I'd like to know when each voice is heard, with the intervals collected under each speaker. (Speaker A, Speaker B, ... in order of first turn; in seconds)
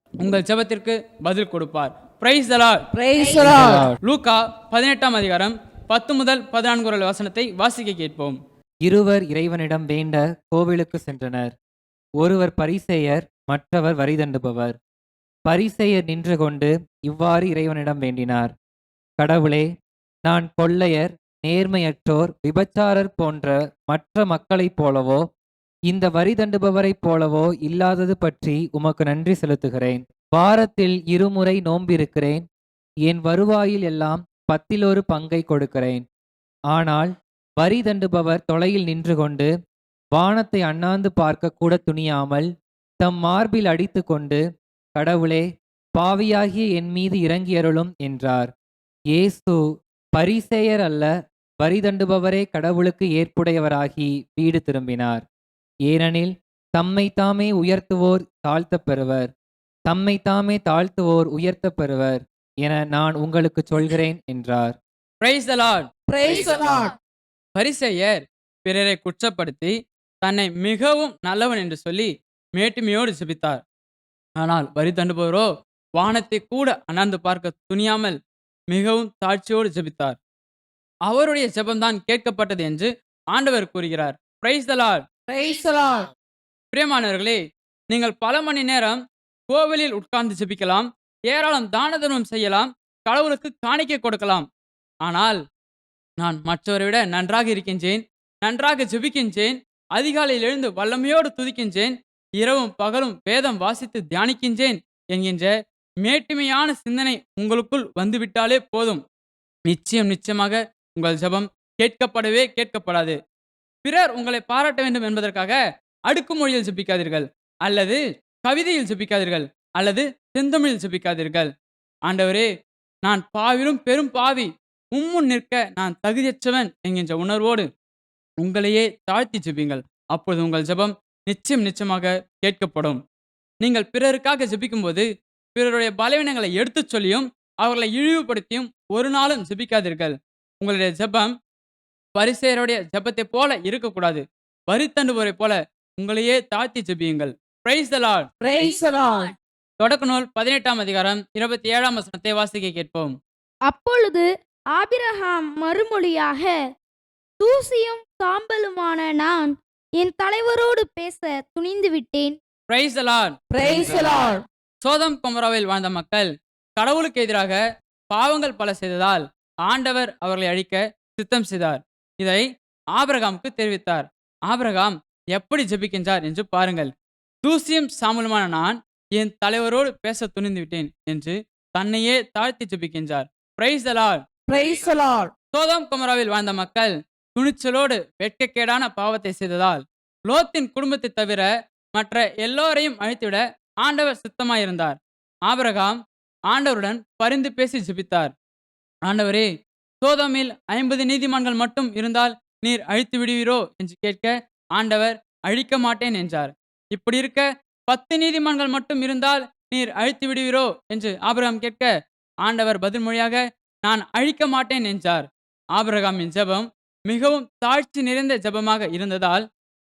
Speaker A: 0.2-2.8, 3.6-8.4, 65.2-65.8, 67.5-73.6, 74.4-78.2, 78.7-80.2, 81.0-85.0, 86.7-94.4, 95.0-95.4, 96.2-109.0, 109.7-113.2, 113.8-121.5, 122.0-122.5, 123.0-127.7, 128.4-133.0, 133.6-141.3, 142.1-148.3, 149.8-153.2, 162.7-164.2, 164.8-167.6, 168.1-176.9, 177.4-184.2, 185.5-195.9, 196.5-198.3, 199.0-199.5, 200.0-211.9, 212.4-219.4
Speaker B: 2.9-3.9, 66.1-66.9, 85.3-86.1, 148.4-149.3, 163.5-164.4, 184.5-185.3
Speaker C: 3.2-3.5, 153.7-156.6, 157.4-162.4
Speaker D: 3.4-4.0, 8.8-11.5, 12.2-14.8, 15.4-18.5, 19.2-19.7, 20.3-25.2, 25.9-32.4, 33.0-36.0, 36.7-39.5, 40.1-44.4, 44.9-48.5, 49.1-49.6, 50.1-55.2, 55.9-59.3, 59.9-64.8